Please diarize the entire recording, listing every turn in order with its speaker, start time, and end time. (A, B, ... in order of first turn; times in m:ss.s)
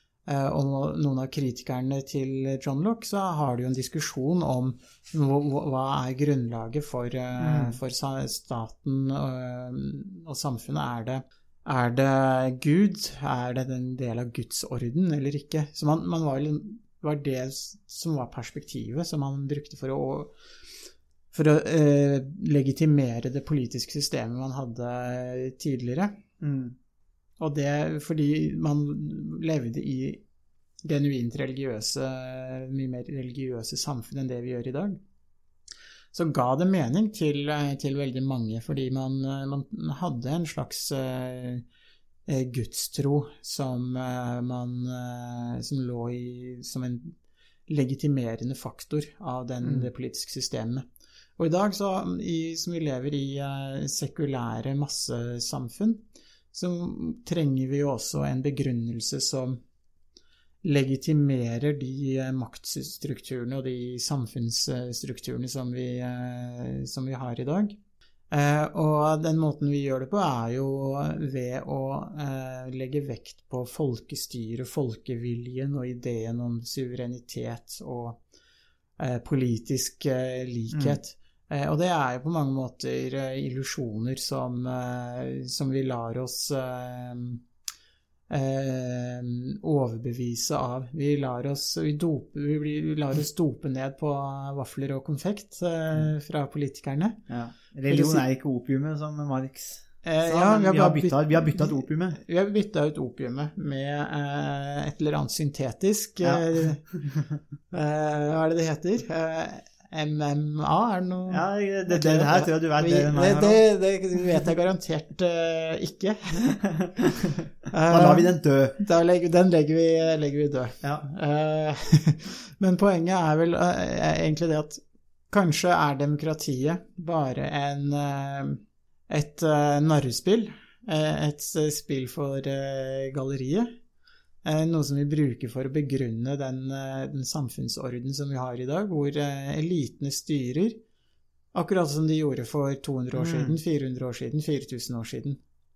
0:00.3-0:20.3 A
0:07.4-0:07.8 B
0:21.3-0:26.2 A
0:26.4-0:26.8 B
0:27.4-0:30.2 A
0:30.8-0:35.0 A
0:36.1-0:41.6 A
0:42.3-0:47.2 A
0:47.7-0:50.8 A
0:49.6-0:49.9 B
0:51.4-0:59.6 A
1:00.6-1:07.8 A
1:08.3-1:18.2 A
1:19.0-1:27.4 A
1:20.7-1:21.0 B
1:28.3-1:37.2 A
1:37.3-1:42.2 B
1:37.9-1:38.3 A
1:40.0-1:46.9 A
1:47.7-1:56.6 A
1:51.3-1:53.6 B
1:56.6-1:58.8 B
1:57.7-2:13.7 A
2:14.4-2:20.8 A
2:21.5-2:25.4 A
2:23.2-2:23.6 B